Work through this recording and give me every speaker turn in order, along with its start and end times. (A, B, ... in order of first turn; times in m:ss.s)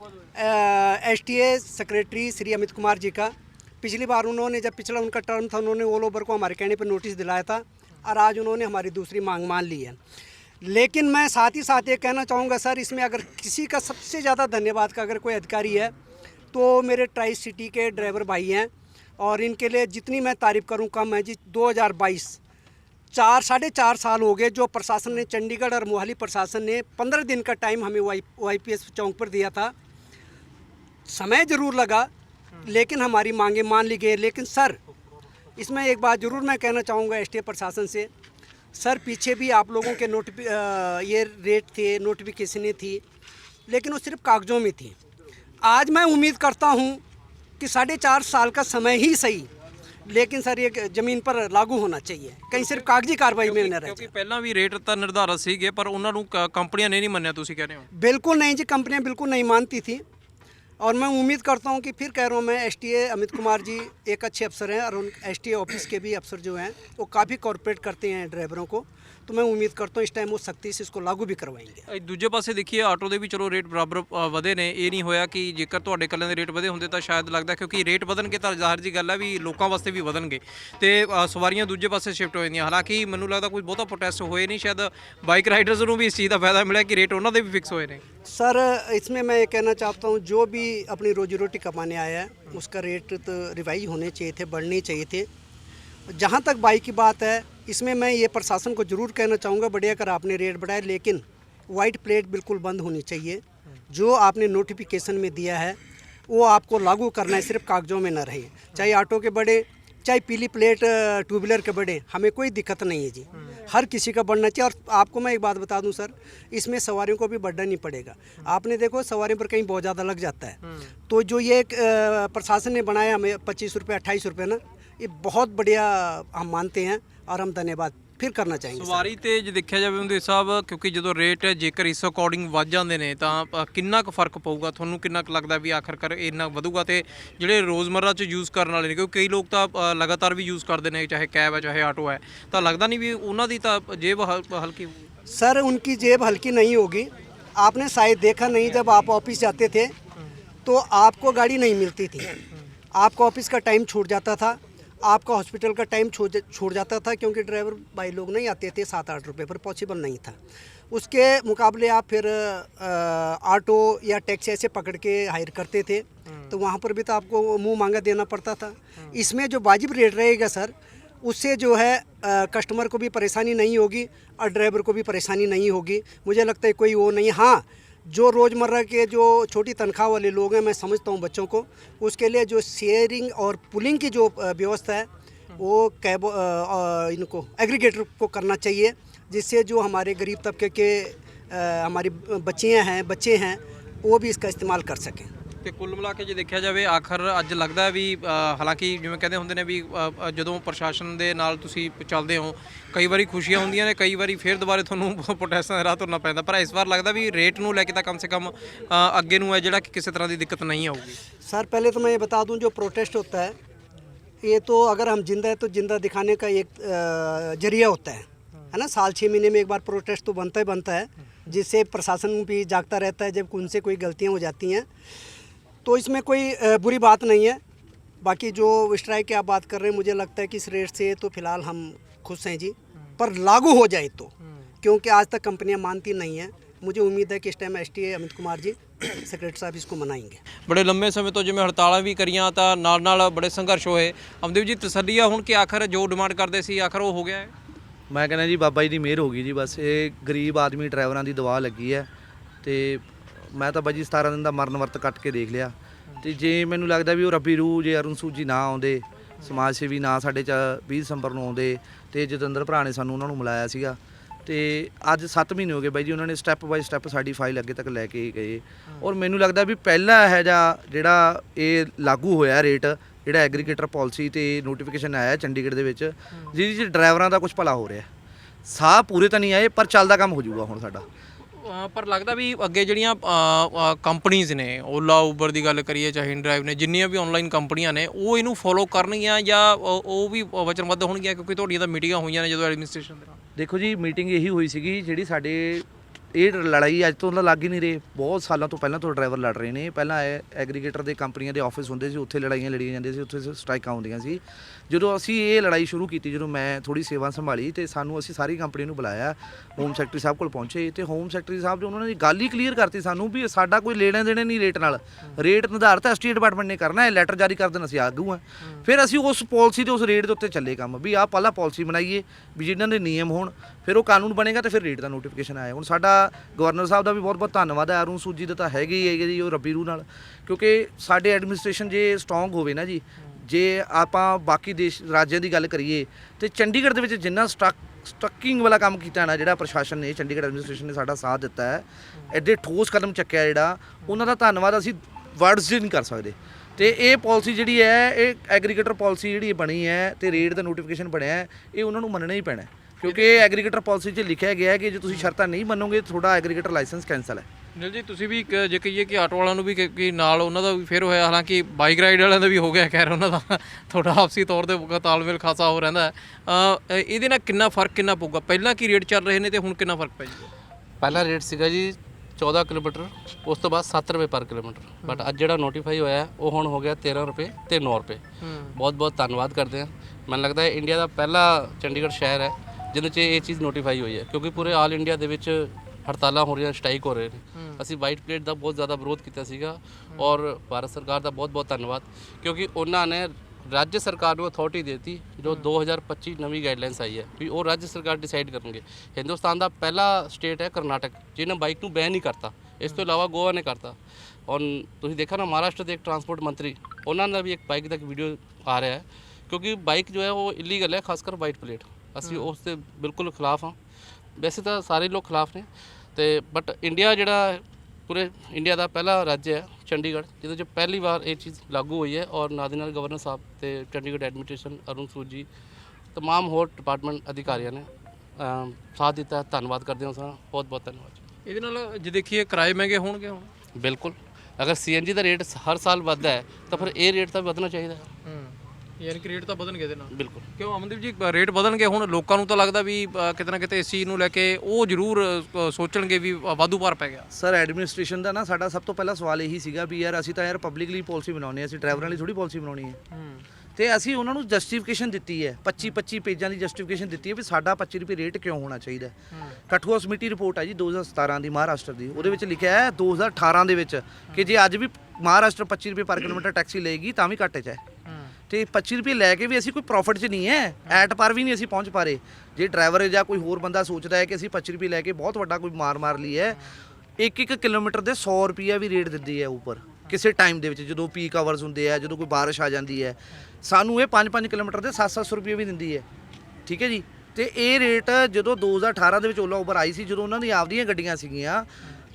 0:00.4-0:10.0 A
0:10.6-0:15.9 A
0:16.5-0:22.4 A
0:23.1-0:29.7 A
0:31.1-0:32.1 A
0:32.6-0:34.8 A
0:35.6-0:38.1 A
0:38.8-0:43.0 A
0:43.7-0:45.0 A
0:45.6-0:47.0 A
0:47.6-0:49.5 A
0:50.1-0:54.1 A
0:53.3-0:57.9 B
0:57.9-1:00.0 A
1:00.8-1:11.9 A
1:11.9-1:28.0 B
1:28.2-1:35.3 A
1:36.1-1:45.8 A
1:46.3-2:00.6 A
2:01.1-2:09.1 A
2:08.8-2:25.0 B
2:25.3-2:29.9 A
2:30.6-2:32.4 A
2:32.9-2:40.4 A
2:40.9-3:15.3 A
3:15.6-3:31.2 B
3:31.4-3:33.6 A
3:34.4-3:44.9 A
3:45.8-3:47.6 A
3:48.2-4:00.4 A
4:00.7-4:07.5 B
4:08.1-4:12.1 C
4:12.6-4:38.1 C
4:38.7-4:41.1 C
4:41.6-4:53.4 B
4:53.6-5:57.5 C
5:53.1-5:53.4 B
5:57.8-6:10.5 B
6:11.0-6:18.2 D
6:18.4-6:18.8 B
6:18.8-6:53.8 D
6:24.5-6:24.8 B
6:27.6-6:27.8 B
6:52.2-6:52.5 B
6:54.4-7:05.5 D
7:06.1-7:11.2 D
7:11.4-7:13.5 B
7:13.8-7:18.1 D
7:18.2-7:27.3 B
7:20.1-7:20.4 D
7:27.3-7:33.0 C
7:33.1-7:33.4 B
7:33.8-7:39.2 C
7:39.3-7:39.6 B
7:39.7-7:47.8 C
7:48.1-7:48.3 B
7:48.5-7:56.6 C
7:57.2-8:06.0 C
8:06.7-8:11.7 C